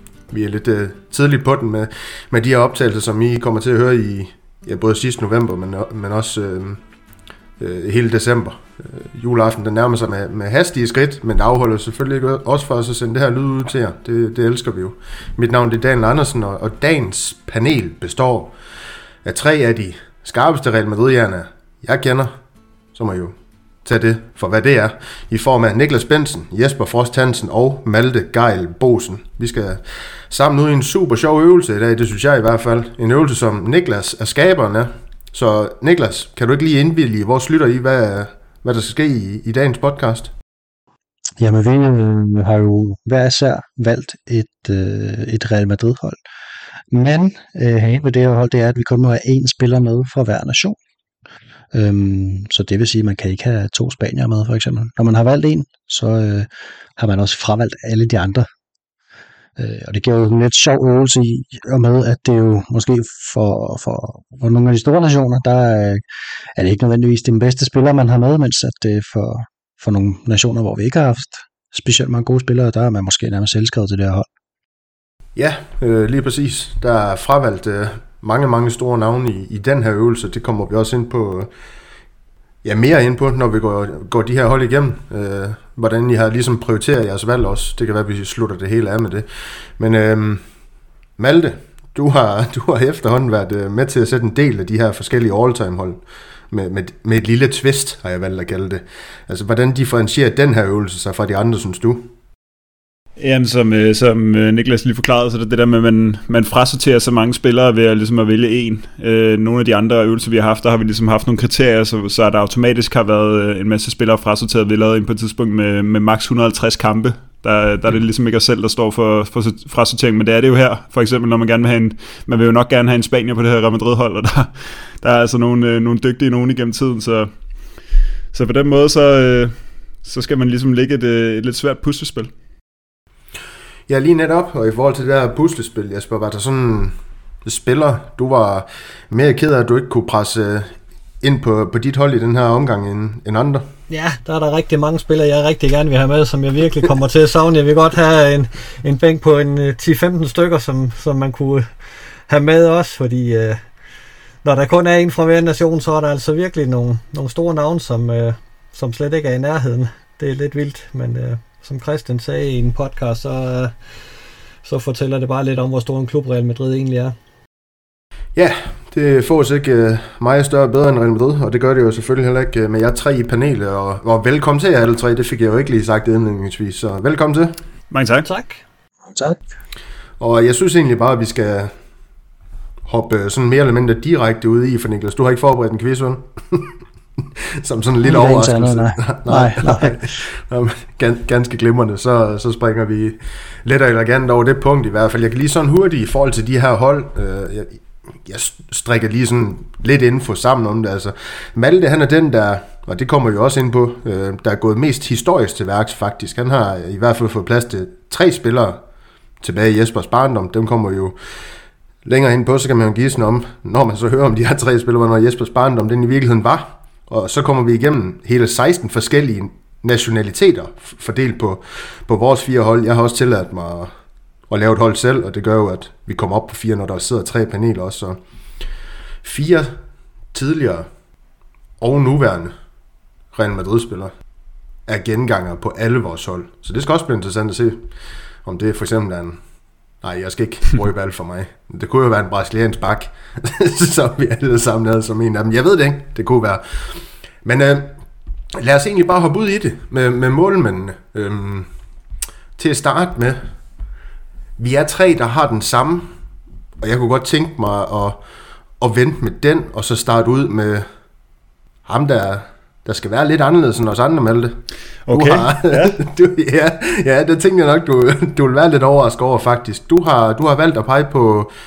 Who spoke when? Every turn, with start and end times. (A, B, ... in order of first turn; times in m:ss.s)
0:00.3-0:06.8 A
0:07.6-0:18.5 A
0:19.2-0:22.3 A
0:22.9-0:40.3 A
0:41.4-0:46.2 B
0:46.9-0:50.8 B
0:51.7-0:58.5 B
0:59.6-1:06.0 B
1:06.6-1:14.2 B
1:15.4-1:21.5 A
1:22.6-1:30.4 A
1:31.2-1:36.0 A
1:36.5-1:42.1 A
1:43.2-2:07.3 C
2:08.3-2:12.3 C
2:13.9-2:23.6 A
2:23.9-2:31.7 D
2:32.3-2:33.6 D
2:34.4-2:43.7 D
2:44.6-2:47.1 D
2:48.4-2:57.6 A
2:57.9-2:58.3 C
2:58.2-2:58.6 D
2:59.1-2:59.4 B
3:00.2-3:01.7 A
3:02.9-3:06.7 A
3:07.6-3:28.8 A
3:08.0-3:10.1 B
3:29.4-3:31.2 A
3:32.0-3:43.9 A
3:44.5-3:48.2 A
3:49.2-3:49.8 A
3:50.3-3:50.9 A
3:51.8-3:52.5 A
3:53.3-3:54.1 A
3:54.9-3:57.9 A
3:58.4-3:59.4 A
4:00.0-4:07.9 A
4:08.6-4:11.7 A
4:12.6-4:13.4 A
4:14.6-4:16.1 A
4:16.8-4:18.2 A
4:18.8-4:20.9 A
4:21.8-4:24.6 A
4:25.0-4:26.0 C
4:25.1-4:31.5 A